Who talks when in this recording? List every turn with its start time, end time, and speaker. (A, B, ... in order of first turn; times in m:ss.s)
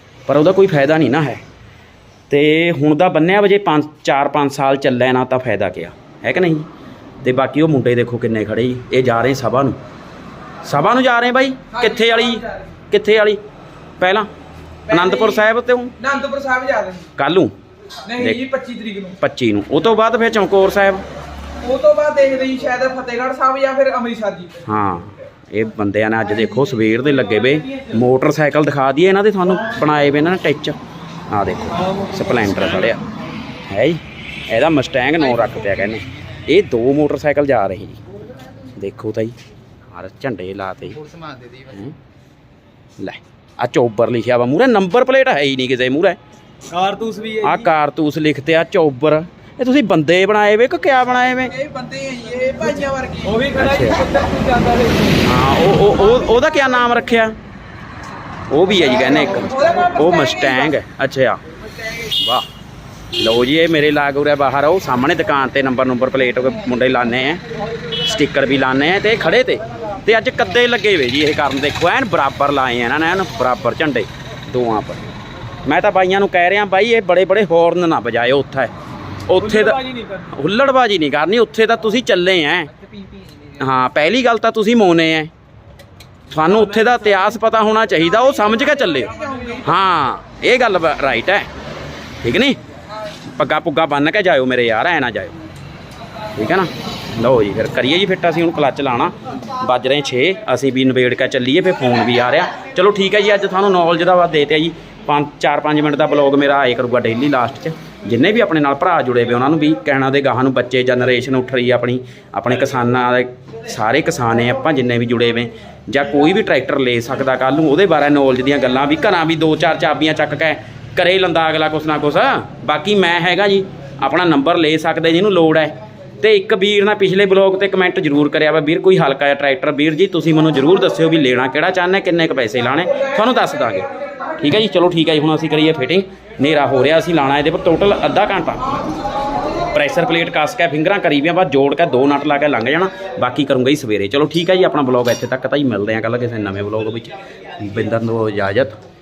0:00.3-0:01.4 A
0:02.3-0:06.7 A
0:07.2-0:09.8 A
0:10.6-0:13.4 A
0:11.7-0:12.6 B
0:14.0-0:14.3 A
0:14.9-0:15.4 B
0:14.9-0:15.9 A
0:16.0-0:17.1 B
0:17.2-0:17.6 A
0:18.1-0:19.2 B
0:18.2-0:18.4 A
0:19.2-0:21.0 A
0:21.6-0:24.6 B
0:24.6-0:30.8 A
0:31.3-0:33.0 A
0:33.7-0:38.0 A
0:38.7-0:39.4 A
0:39.9-0:41.0 A
0:41.1-0:41.6 B
0:41.6-0:42.0 A
0:43.0-0:46.2 A
0:46.7-0:47.7 B
0:47.4-0:51.5 A
0:51.5-0:55.2 B
0:53.6-0:54.0 A
0:55.2-0:57.4 A
0:58.5-1:01.4 A
0:58.8-1:00.7 B
1:02.1-1:02.4 A
1:03.2-1:07.4 A
1:08.0-1:15.0 A
1:15.6-1:18.7 A
1:19.2-1:22.7 A
1:19.4-1:20.3 B
1:22.8-1:23.5 B
1:23.6-1:25.3 A
1:26.3-1:31.5 A
1:28.5-1:29.7 B
1:32.2-1:32.6 A
1:33.3-1:35.3 A
1:36.4-2:18.6 A
2:19.7-2:28.8 A